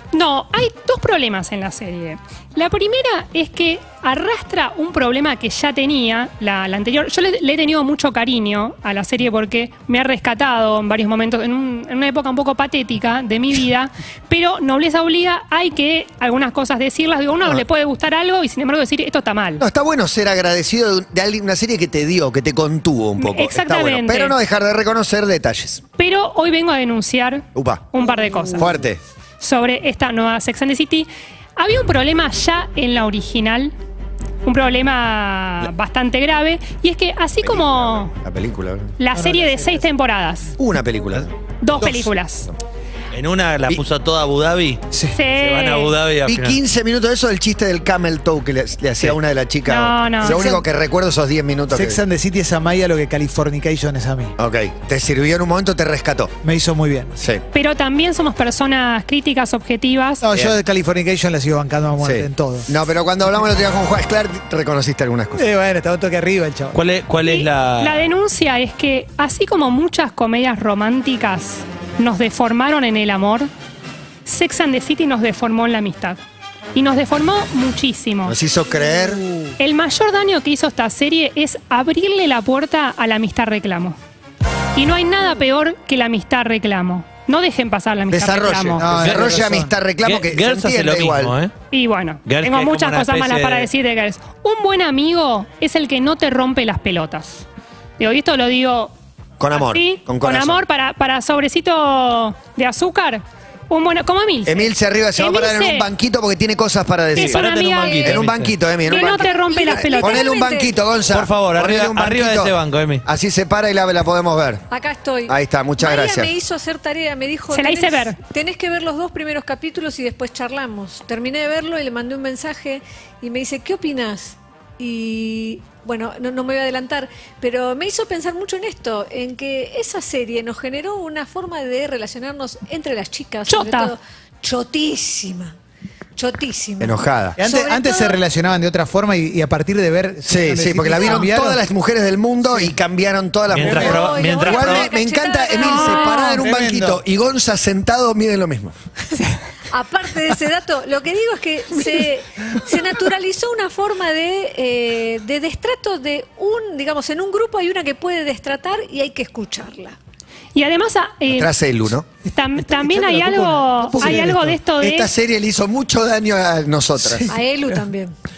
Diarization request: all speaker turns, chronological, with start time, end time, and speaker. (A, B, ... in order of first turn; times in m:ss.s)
0:00.1-0:19.6 A
0:19.6-0:25.8 B
0:23.2-0:24.4 A
0:26.0-0:28.7 A
0:27.6-0:27.9 B
0:28.6-0:29.0 B
0:29.4-0:33.7 A
0:34.4-0:38.1 A
0:37.4-0:38.9 B
0:39.0-0:40.5 A
0:39.1-0:39.9 C
0:40.6-0:41.3 B
0:41.6-0:42.5 A
0:41.8-0:42.1 C
0:43.1-0:46.6 D
0:44.9-0:45.2 C
0:45.1-0:45.9 A
0:46.3-0:52.0 B
0:49.7-0:50.5 A
0:50.2-0:50.6 C
0:51.7-0:54.4 C
0:54.4-0:56.4 B
0:56.4-0:57.2 C
0:57.5-1:00.2 A
1:00.2-1:02.7 C
1:02.0-1:05.5 B
1:05.4-1:06.8 C
1:06.7-1:08.0 D
1:07.2-1:13.5 A
1:14.3-1:16.2 A
1:16.8-1:18.4 A
1:18.3-1:19.2 B
1:19.1-1:19.5 C
1:19.6-1:24.0 A
1:24.8-1:28.8 A
1:28.1-1:31.3 B
1:28.8-1:29.7 C
1:29.0-1:29.5 D
1:30.0-1:31.5 D
1:31.7-1:37.4 A
1:32.3-1:33.7 D
1:38.0-1:38.9 A
1:39.4-1:40.6 B
1:39.6-1:45.9 A
1:44.4-1:54.6 B
1:47.1-1:48.2 A
1:47.2-1:48.2 E
1:47.9-1:48.6 D
1:48.9-1:50.3 A
1:48.9-1:50.8 E
1:51.1-1:53.0 D
1:54.7-2:15.6 E
1:55.3-1:56.4 B
1:57.5-1:58.2 A
2:13.5-2:14.0 A
2:16.2-2:18.2 E
2:16.8-2:17.4 B
2:17.4-2:21.6 C
2:20.3-2:28.8 B
2:22.4-2:22.7 C
2:23.5-2:24.9 D
2:23.6-2:24.0 C
2:23.6-2:26.4 E
2:25.6-2:26.4 A
2:26.2-2:27.0 C
2:29.7-2:40.0 E
2:40.6-2:41.5 A
2:41.3-2:42.1 B
2:42.3-2:45.1 A
2:42.6-2:44.6 C
2:44.8-2:47.3 B
2:47.0-2:47.3 C
2:47.3-2:48.1 E